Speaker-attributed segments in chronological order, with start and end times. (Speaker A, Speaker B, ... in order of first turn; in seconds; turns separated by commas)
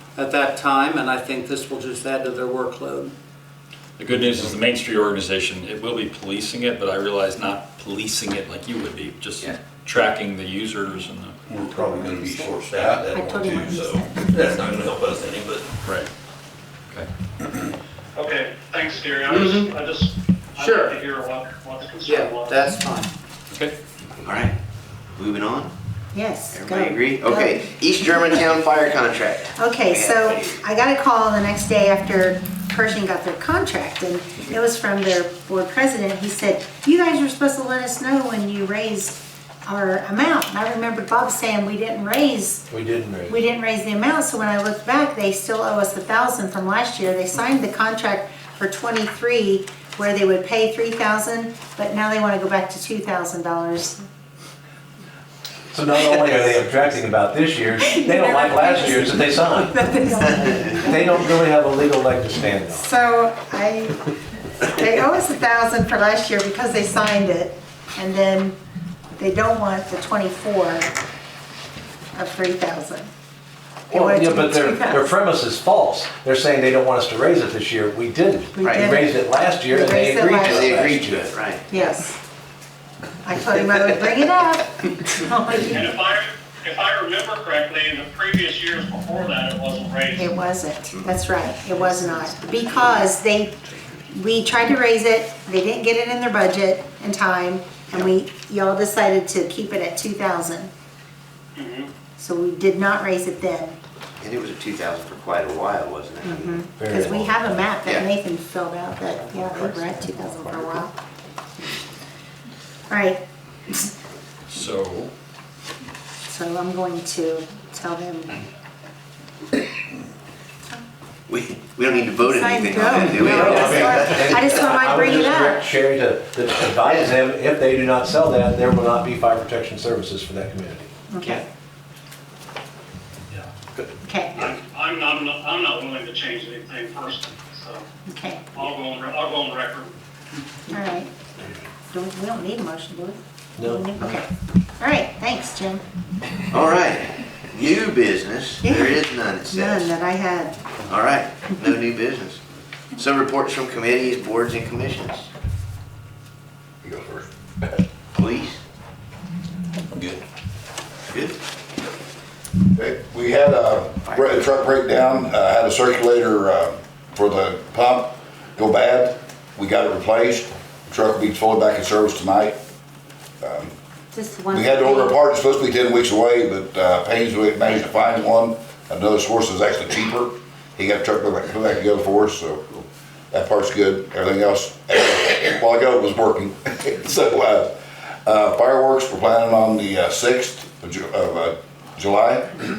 Speaker A: 0.2-3.1, Speaker B: 4.0-11.4, Speaker C: 11.5-15.8, Speaker D: 11.8-14.8, Speaker B: 15.8-16.1, Speaker E: 18.2-22.6, Speaker A: 19.3-19.7, Speaker A: 20.6-21.0, Speaker A: 22.0-23.1, Speaker F: 24.2-24.6, Speaker F: 25.1-25.7, Speaker D: 26.1-27.6, Speaker F: 26.5-30.6, Speaker D: 29.6-42.7, Speaker G: 42.7-43.4, Speaker D: 43.3-54.0, Speaker G: 55.7-59.9, Speaker D: 57.8-61.2, Speaker G: 60.7-62.9, Speaker D: 62.7-68.6, Speaker D: 69.2-70.9, Speaker D: 72.1-73.1, Speaker G: 73.9-81.4, Speaker D: 73.9-75.1, Speaker D: 78.5-80.7, Speaker F: 80.4-81.7, Speaker D: 81.7-82.2, Speaker D: 83.2-85.9, Speaker E: 85.6-90.3, Speaker D: 90.2-93.6, Speaker D: 94.1-100.7, Speaker E: 101.6-101.9, Speaker D: 102.2-103.8, Speaker F: 104.2-106.7, Speaker D: 106.2-111.0, Speaker G: 106.8-107.6, Speaker F: 109.3-110.1, Speaker D: 112.9-113.9, Speaker B: 114.5-115.1, Speaker D: 116.3-118.5, Speaker F: 121.3-124.7, Speaker D: 122.2-125.7, Speaker G: 123.2-131.0, Speaker D: 131.1-131.5, Speaker D: 134.0-134.5, Speaker E: 134.4-137.8, Speaker D: 138.1-138.5, Speaker E: 138.6-139.9, Speaker D: 140.7-141.1, Speaker D: 141.9-145.8, Speaker G: 143.6-144.1, Speaker F: 146.5-149.9, Speaker D: 148.6-150.6, Speaker F: 150.9-152.4, Speaker F: 153.0-155.3, Speaker H: 156.8-157.8, Speaker F: 158.1-158.6, Speaker C: 159.9-160.2, Speaker F: 161.1-161.4, Speaker H: 162.8-172.6, Speaker F: 164.1-164.3, Speaker H: 173.4-173.7, Speaker D: 174.1-175.1, Speaker H: 174.5-192.6